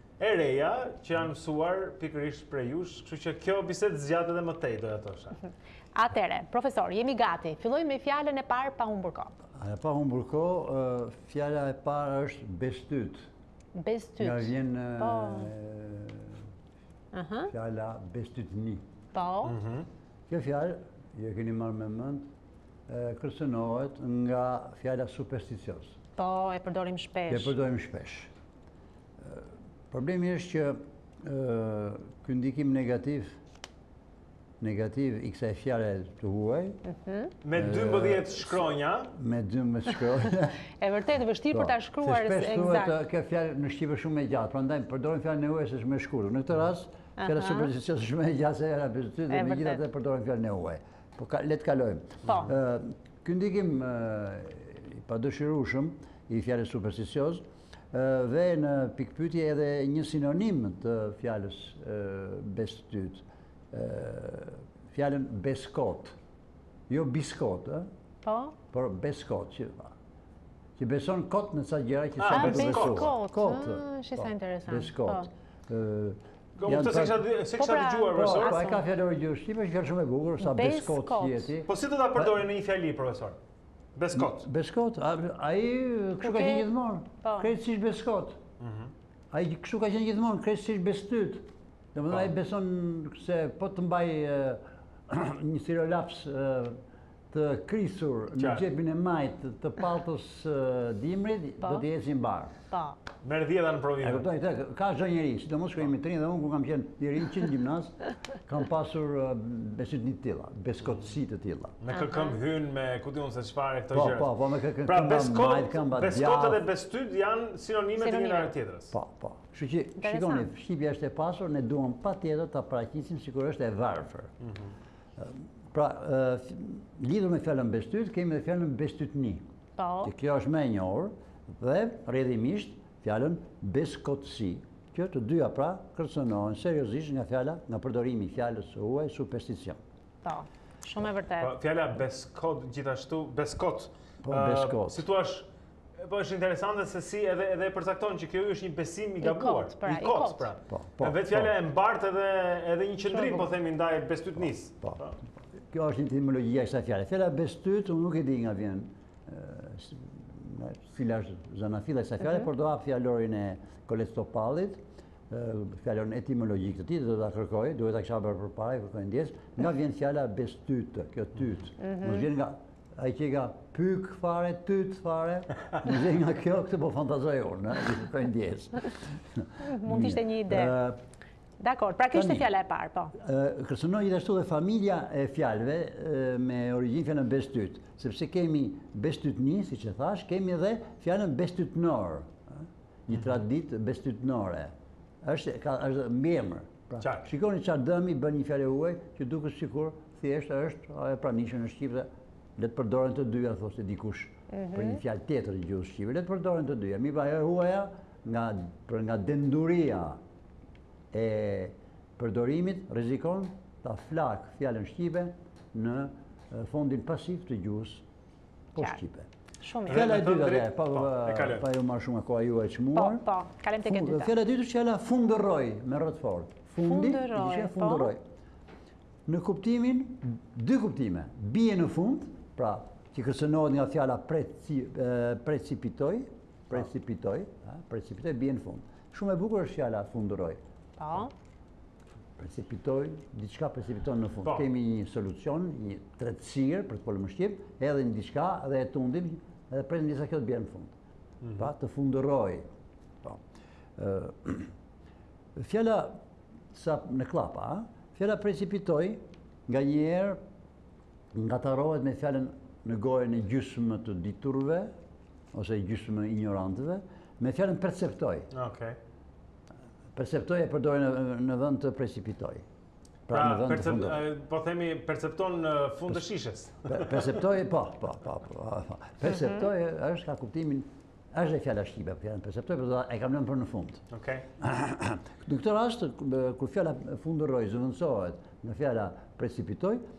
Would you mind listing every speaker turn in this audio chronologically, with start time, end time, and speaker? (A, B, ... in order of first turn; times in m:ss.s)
0:00.2-0:05.4 A
0:06.0-0:09.3 B
0:09.6-0:13.3 C
0:13.8-0:15.5 B
0:14.2-0:16.4 C
0:17.1-0:17.5 B
0:17.5-0:18.8 C
0:19.1-0:19.6 B
0:19.5-0:19.9 A
0:20.3-0:22.3 C
0:22.9-0:26.0 C
0:26.2-0:27.5 B
0:27.3-0:28.3 C
0:29.2-0:33.4 C
0:34.6-0:36.8 C
0:36.9-0:37.3 B
0:37.4-0:39.1 A
0:37.5-0:40.6 C
0:40.8-0:43.0 B
0:41.5-1:06.2 C
0:47.2-0:47.7 B
0:49.3-0:49.8 B
1:06.9-1:07.9 C
1:08.2-1:08.6 B
1:08.7-1:10.0 C
1:10.8-1:17.3 C
1:12.2-1:13.1 A
1:12.3-1:15.3 B
1:16.6-1:18.6 A
1:17.6-1:18.8 B
1:18.1-1:22.4 C
1:20.4-1:21.5 B
1:21.7-1:23.4 A
1:24.0-1:24.4 A
1:24.1-1:28.4 C
1:26.2-1:26.7 B
1:27.2-1:27.5 B
1:28.6-1:28.9 A
1:29.3-1:36.8 C
1:37.3-1:42.5 C
1:38.4-1:38.6 A
1:42.7-1:43.0 B
1:43.2-1:44.3 A
1:44.0-1:51.8 C
1:51.8-1:54.3 A
1:51.9-1:52.4 B
1:53.9-1:56.6 C
1:54.8-1:58.9 A
1:58.0-1:58.5 B
1:58.9-2:04.3 C
2:00.0-2:00.5 B
2:05.2-2:09.4 C
2:09.8-2:10.1 B
2:10.0-2:19.8 C
2:20.2-2:21.6 B
2:21.4-2:25.5 A
2:24.2-2:25.0 C
2:26.0-2:35.2 A
2:29.2-2:30.5 B
2:30.7-2:31.5 C
2:33.1-2:33.5 B
2:35.6-3:01.0 C
2:51.8-2:52.2 B
2:59.6-3:00.8 B
3:01.6-3:03.2 B
3:02.1-3:02.5 C
3:03.2-3:14.7 C
3:15.2-3:30.2 C
3:17.0-3:17.3 A
3:24.5-3:25.0 B
3:31.1-3:38.0 C
3:38.7-3:39.3 C
3:39.6-3:40.0 B
3:39.9-3:41.7 A
3:39.9-3:43.3 C
3:42.9-3:44.3 B
3:43.8-3:48.2 C
3:46.8-3:48.1 B
3:49.3-4:00.6 C
4:01.0-4:01.3 B
4:02.4-4:10.9 C
4:11.4-4:11.7 A
4:11.6-4:12.7 C
4:14.0-4:14.7 C
4:15.6-4:16.2 C
4:16.7-4:20.4 C
4:21.3-4:24.9 C
4:25.5-4:28.5 C
4:28.5-4:29.0 A
4:30.2-4:32.6 C
4:33.3-4:34.2 C
4:33.3-4:37.3 A
4:36.9-4:44.0 C
4:44.1-4:44.4 A
4:44.6-4:50.0 C